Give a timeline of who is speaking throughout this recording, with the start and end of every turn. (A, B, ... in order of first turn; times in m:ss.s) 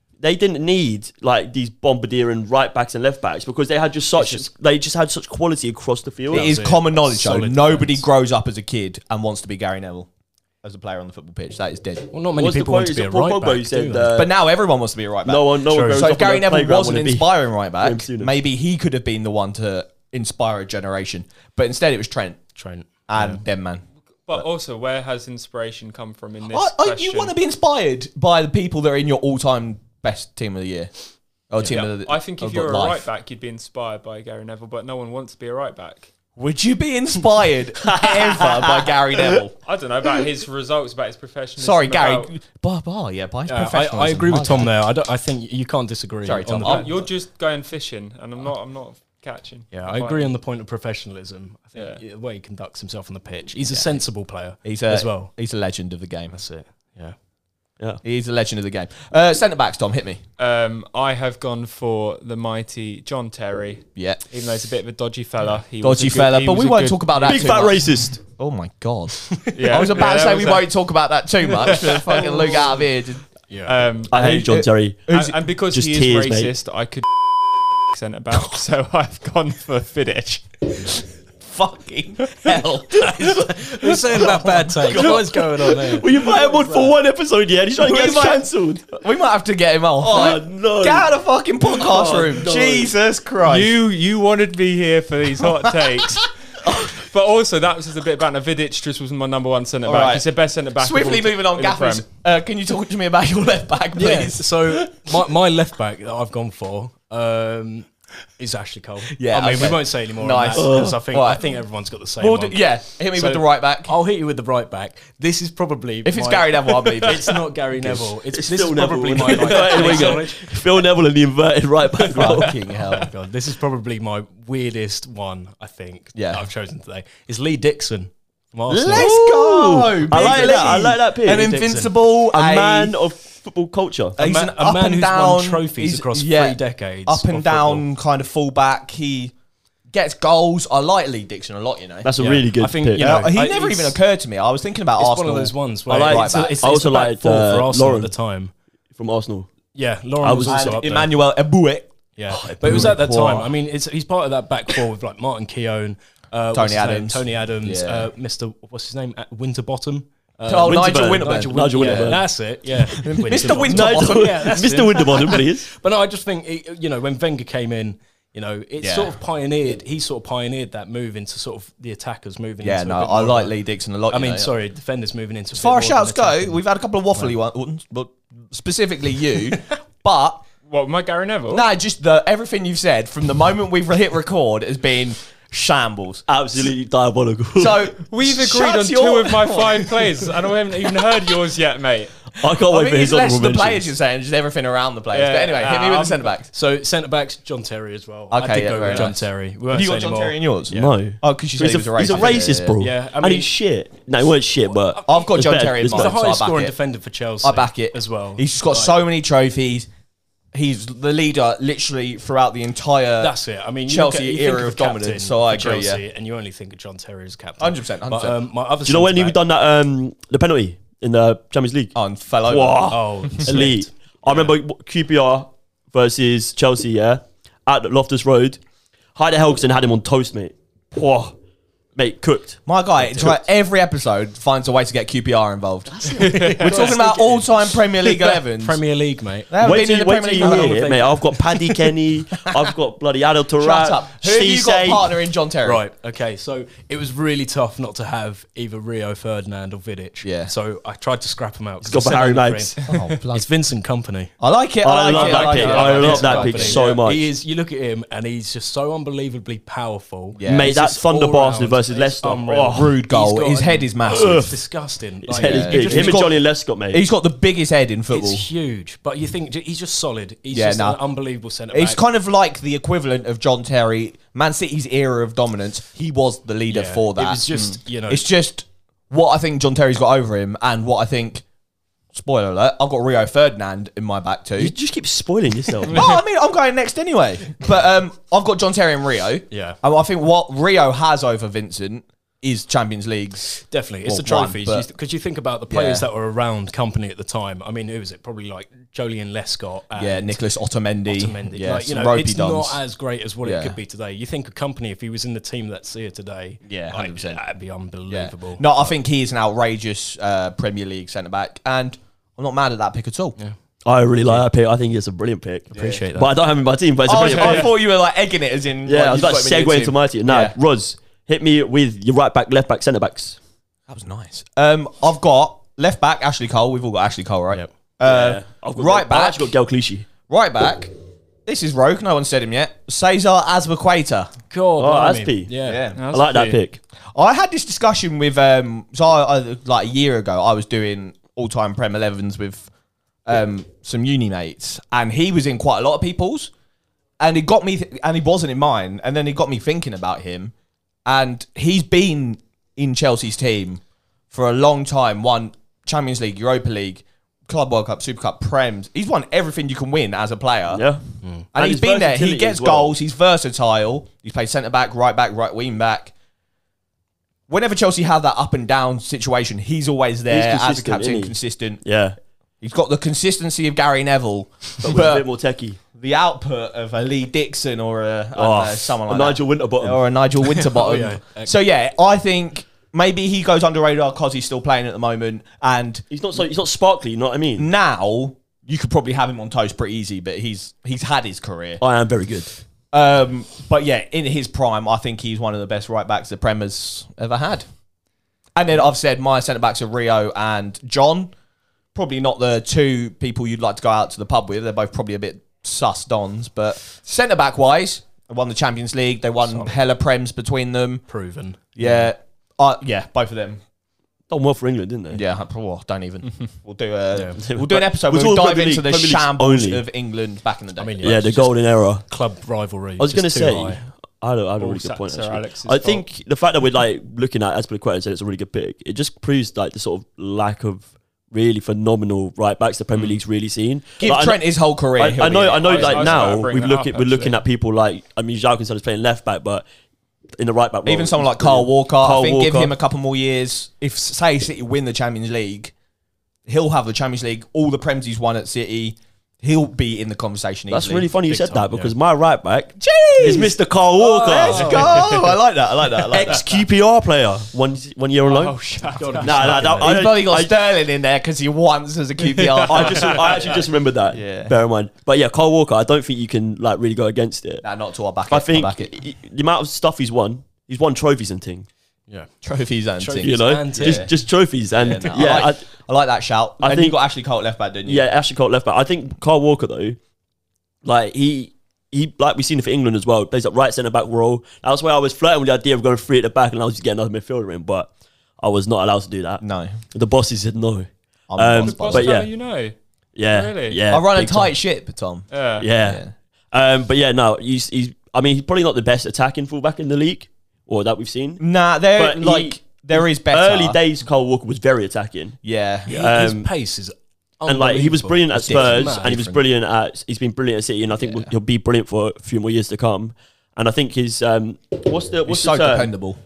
0:00.2-0:06.5 A
0:04.2-0:04.4 B
0:06.3-0:08.0 B
0:06.3-0:10.1 C
0:10.6-0:12.1 C
0:12.1-0:14.2 B
0:12.3-0:14.3 A
0:14.1-0:22.4 C
0:15.2-0:18.3 A
0:15.7-0:16.1 B
0:22.5-0:23.4 B
0:23.1-0:24.4 C
0:24.3-0:27.3 D
0:26.5-0:30.9 C
0:31.5-0:33.0 C
0:31.6-0:36.1 D
0:36.4-0:39.5 C
0:37.8-0:39.2 A
0:39.6-0:42.3 D
0:41.6-0:44.7 C
0:43.4-0:46.9 B
0:46.2-0:47.1 C
0:46.6-0:50.3 D
0:49.7-0:55.3 B
0:51.7-0:52.0 D
0:54.6-0:56.4 C
0:56.3-0:57.2 B
0:58.0-1:00.2 C
1:00.4-1:07.8 D
1:04.0-1:04.2 C
1:05.8-1:13.2 C
1:07.2-1:08.2 A
1:09.5-1:10.7 D
1:11.4-1:12.7 D
1:13.5-1:13.8 B
1:13.6-1:14.2 D
1:14.1-1:16.5 A
1:14.1-1:15.4 C
1:15.1-1:21.0 D
1:21.4-1:25.2 C
1:23.0-1:26.9 B
1:24.8-1:28.8 A
1:27.8-1:33.7 C
1:30.0-1:31.1 A
1:31.6-1:32.9 A
1:33.4-1:42.0 D
1:39.8-1:40.2 C
1:40.8-1:44.8 C
1:44.0-2:00.6 B
1:49.1-1:51.5 C
1:50.5-1:51.0 A
1:52.2-1:53.9 C
1:56.0-1:57.4 C
1:57.0-2:02.6 A
1:59.7-2:00.1 D
2:02.1-2:03.1 C
2:02.2-2:09.2 B
2:06.1-2:06.4 C
2:08.7-2:12.9 C
2:08.8-2:11.6 A
2:10.2-2:11.9 B
2:12.3-2:14.2 A
2:14.2-2:17.8 B
2:14.2-2:19.3 C
2:19.9-2:22.1 C
2:22.0-2:23.5 A
2:22.2-2:24.0 B
2:23.0-2:26.6 C
2:25.0-2:28.5 B
2:25.9-2:28.1 A
2:28.9-2:29.5 A
2:29.7-2:31.1 B
2:30.2-2:30.8 A
2:30.5-2:31.9 C
2:32.2-2:53.5 B
2:32.3-2:33.5 A
2:32.6-2:33.0 C
2:36.5-2:38.1 C
2:40.5-2:42.2 C
2:40.6-2:42.2 A
2:42.8-2:45.7 A
2:42.9-2:44.6 C
2:48.8-2:49.1 C
2:52.6-2:54.5 C
2:54.1-2:56.6 B
2:55.5-3:00.4 C
3:00.6-3:01.7 D
3:01.5-3:06.3 C
3:06.3-3:07.9 A
3:07.6-3:10.3 C
3:08.1-3:12.3 D
3:12.4-3:13.9 A
3:12.7-3:16.5 C
3:15.1-3:16.2 D
3:16.5-3:20.9 B
3:18.3-3:22.8 C
3:18.8-3:19.1 D
3:20.7-3:26.1 A
3:22.0-3:23.5 B
3:24.9-3:25.3 B
3:25.0-3:26.7 C
3:25.8-3:29.0 B
3:27.4-3:29.9 C
3:30.5-3:33.3 C
3:33.2-3:39.4 B
3:33.8-3:36.0 C
3:37.6-3:38.4 C
3:38.8-3:41.9 A
3:41.9-3:42.9 C
3:42.5-3:48.6 A
3:42.9-3:43.9 B
3:44.3-3:44.5 C
3:49.1-3:51.4 A
3:52.0-3:52.6 A
3:52.6-3:58.8 C
3:55.9-4:01.8 B
3:56.1-3:57.0 D
3:59.5-4:01.0 C
3:59.6-4:05.1 A
4:03.6-4:05.8 C
4:05.6-4:14.3 B
4:10.2-4:10.5 C
4:11.8-4:12.8 A
4:12.8-4:13.5 C
4:14.4-4:16.8 C
4:14.8-4:17.3 A
4:15.1-4:26.2 B
4:20.4-4:20.8 C
4:20.4-4:23.0 A
4:22.5-4:24.6 C
4:24.1-4:24.5 A
4:25.2-4:27.0 A
4:25.4-4:28.4 C
4:28.1-4:32.0 B
4:30.5-4:31.0 C
4:31.7-4:41.4 C
4:36.7-4:38.2 B
4:42.1-4:44.7 C
4:44.6-4:46.1 A
4:45.9-4:54.9 C
4:49.5-4:49.8 B
4:53.7-5:00.4 B
4:55.7-4:56.0 C
5:00.0-5:02.8 C
5:01.0-5:08.9 B
5:03.4-5:03.8 C
5:06.6-5:07.4 C
5:08.1-5:13.4 C
5:13.8-5:17.7 A
5:15.7-5:16.3 B
5:15.8-5:16.0 C
5:17.0-5:20.5 C
5:17.1-5:17.7 D
5:18.8-5:23.4 A
5:23.9-5:29.5 C
5:28.0-5:30.1 A
5:30.3-5:30.9 C
5:31.4-5:34.3 C
5:34.5-5:35.8 B
5:34.8-5:35.5 A
5:35.6-5:36.0 C
5:35.9-5:36.6 D
5:36.1-5:36.8 A
5:37.1-5:42.7 C
5:43.2-5:46.5 C
5:47.2-5:50.5 C
5:51.0-5:53.8 C
5:54.3-6:00.8 C
6:00.7-6:03.0 A
6:01.5-6:06.1 C
6:07.5-6:11.8 C
6:10.3-6:12.2 A
6:12.6-6:15.2 C
6:14.8-6:15.8 A
6:15.9-6:26.0 C
6:18.3-6:20.0 A
6:20.4-6:21.5 B
6:26.1-6:27.7 A
6:27.6-6:31.8 C
6:31.8-6:32.5 A
6:32.9-6:37.6 C
6:38.6-6:41.3 C
6:41.9-6:51.0 C
6:49.4-6:49.8 B
6:51.1-6:52.1 B
6:51.8-6:53.6 C
6:54.3-6:55.2 A
6:55.1-7:01.4 C
6:57.1-6:57.4 B
6:57.4-6:59.8 A
7:00.8-7:03.8 B
7:01.0-7:02.0 A
7:03.0-7:14.4 A
7:04.6-7:06.0 D
7:14.0-7:16.5 C
7:14.9-7:19.6 A
7:15.6-7:17.4 D
7:20.3-7:22.7 A
7:20.8-7:25.7 C
7:26.4-7:31.1 C
7:30.7-7:35.0 A
7:31.2-7:31.9 B
7:32.8-7:36.5 C
7:34.1-7:35.0 B
7:34.7-7:35.1 D
7:36.1-7:38.6 A
7:38.2-7:39.6 D
7:38.8-7:40.0 B
7:39.2-7:40.5 A
7:39.7-7:44.6 C
7:42.2-7:43.6 D
7:42.6-7:47.6 A
7:47.6-7:48.9 C
7:48.3-7:51.7 A
7:52.4-7:54.1 C
7:53.0-7:54.1 B
7:53.2-7:55.7 A
7:54.7-7:58.0 C
7:56.6-7:57.0 A
7:57.8-8:00.0 A
8:00.8-8:12.3 A
8:09.4-8:09.8 C
8:11.3-8:12.2 C
8:11.6-8:12.7 D
8:13.1-8:14.5 A
8:13.3-8:13.8 D
8:13.9-8:15.3 C
8:15.3-8:15.7 D
8:15.6-8:21.4 A
8:15.8-8:16.1 C
8:21.4-8:23.8 C
8:22.0-8:26.5 A
8:25.4-8:26.0 C
8:25.9-8:29.4 B
8:27.5-8:35.9 A
8:28.4-8:29.4 C
8:35.2-8:36.2 C